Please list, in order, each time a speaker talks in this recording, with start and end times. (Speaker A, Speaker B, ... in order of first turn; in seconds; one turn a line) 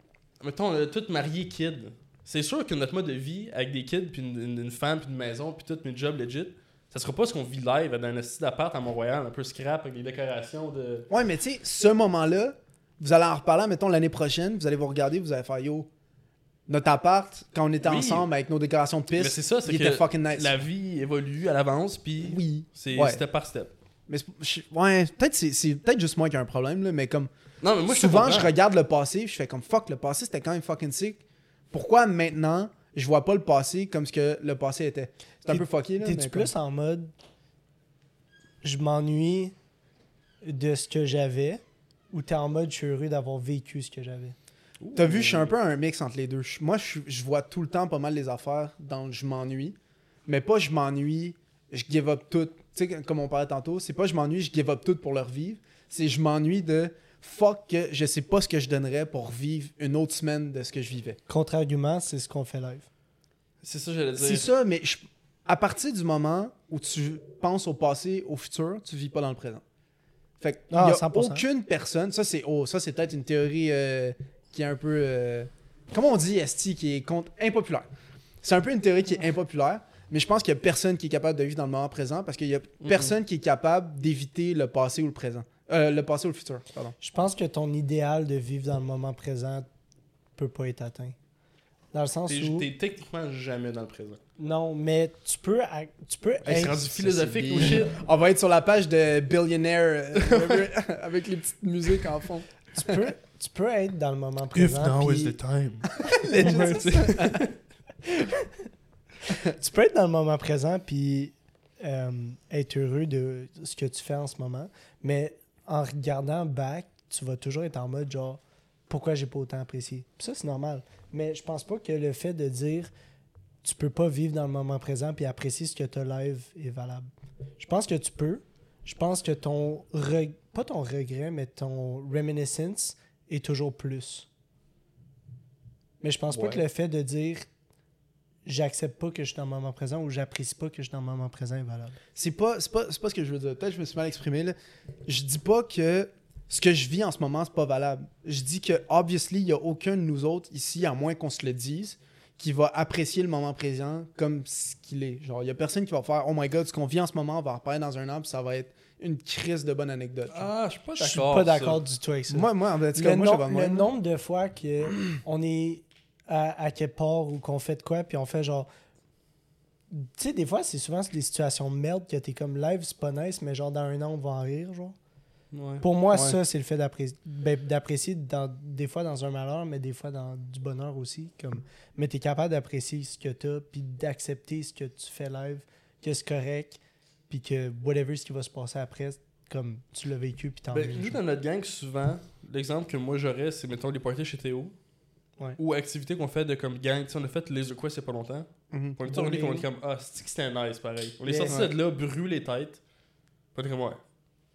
Speaker A: 0.4-11.1
Speaker B: 11.1-15.9
Speaker B: 16.7-20.5
Speaker A: 17.8-18.3
Speaker A: 19.1-23.7
Speaker B: 22.2-23.2
Speaker B: 24.1-27.3
Speaker A: 27.6-28.5
Speaker B: 27.9-31.2
Speaker B: 31.7-36.5
Speaker C: 35.5-37.1
Speaker C: 38.6-39.5
Speaker C: 40.4-44.4
Speaker A: 44.8-45.5
Speaker B: 44.9-49.8
Speaker B: 50.3-61.2
Speaker C: 61.3-62.9
Speaker A: 63.6-64.5
Speaker B: 64.2-69.6
Speaker B: 70.4-77.9
Speaker C: 70.7-71.5
Speaker B: 78.4-86.9
Speaker A: 82.8-83.1
Speaker C: 87.0-89.6
Speaker C: 90.3-91.1
Speaker C: 91.9-92.7
Speaker A: 92.3-94.2
Speaker C: 94.4-97.8
Speaker A: 96.4-98.0
Speaker B: 97.5-102.9
Speaker A: 100.2-100.7
Speaker C: 102.7-105.3
Speaker A: 104.5-107.5
Speaker B: 105.9-107.5
Speaker C: 106.4-107.0
Speaker C: 108.0-108.6
Speaker C: 109.4-122.9
Speaker C: 123.6-127.0
Speaker C: 127.6-134.3
Speaker C: 136.0-137.4
Speaker B: 136.3-136.6
Speaker C: 138.4-142.0
Speaker B: 142.1-144.6
Speaker B: 145.1-160.5
Speaker A: 160.3-161.8
Speaker C: 161.0-168.7
Speaker B: 162.3-163.9
Speaker C: 169.9-174.9
Speaker A: 175.5-176.3
Speaker C: 175.8-191.2
Speaker A: 190.7-194.7
Speaker A: 195.6-202.8
Speaker B: 198.7-199.0
Speaker C: 199.1-199.7
Speaker C: 201.2-201.6
Speaker A: 203.5-204.0